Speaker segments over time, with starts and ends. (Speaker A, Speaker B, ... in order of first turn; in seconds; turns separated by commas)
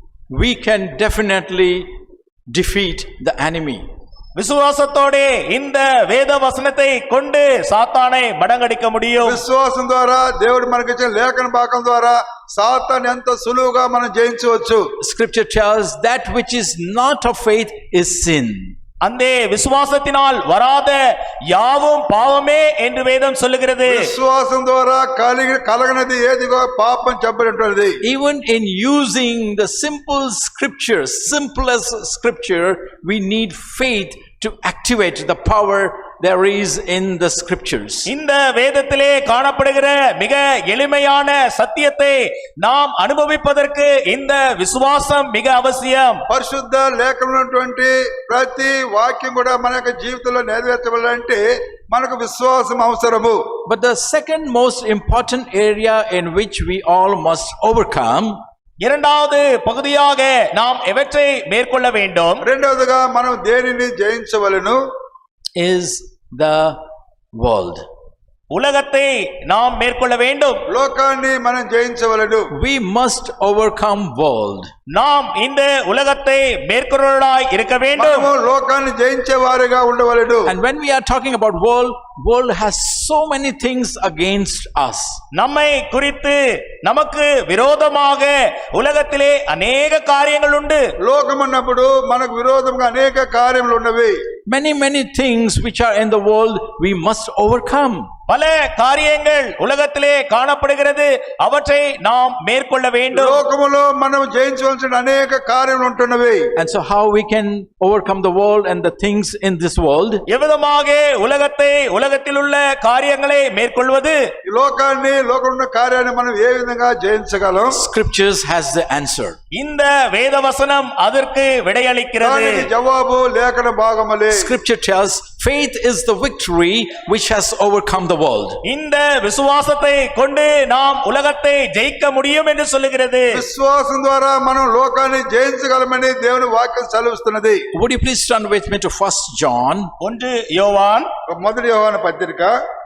Speaker A: 0.3-1.9, Speaker A: 2.5-3.8, Speaker B: 4.3-9.4, Speaker C: 9.2-14.8, Speaker A: 15.0-18.7, Speaker B: 19.0-24.1, Speaker C: 23.8-28.0, Speaker A: 28.0-38.1, Speaker B: 38.1-46.2, Speaker C: 46.3-51.4, Speaker C: 51.9-53.4, Speaker A: 53.6-58.4, Speaker B: 58.8-62.4, Speaker C: 62.4-64.8, Speaker A: 65.6-66.8, Speaker A: 67.3-67.8, Speaker B: 68.5-70.6, Speaker C: 70.7-72.5, Speaker A: 72.5-74.7, Speaker B: 74.9-78.3, Speaker C: 77.9-80.5, Speaker A: 80.5-85.2, Speaker B: 85.3-90.8, Speaker C: 91.0-94.2, Speaker A: 94.5-98.1, Speaker B: 98.3-103.4, Speaker C: 103.1-106.4, Speaker A: 106.5-110.2, Speaker B: 110.3-114.2, Speaker C: 114.5-117.8, Speaker A: 117.7-119.4, Speaker B: 119.5-122.7, Speaker C: 122.2-124.5, Speaker A: 124.3-128.6, Speaker B: 128.6-133.4, Speaker C: 133.3-137.6, Speaker A: 137.7-139.9, Speaker B: 140.0-141.1, Speaker C: 141.3-142.6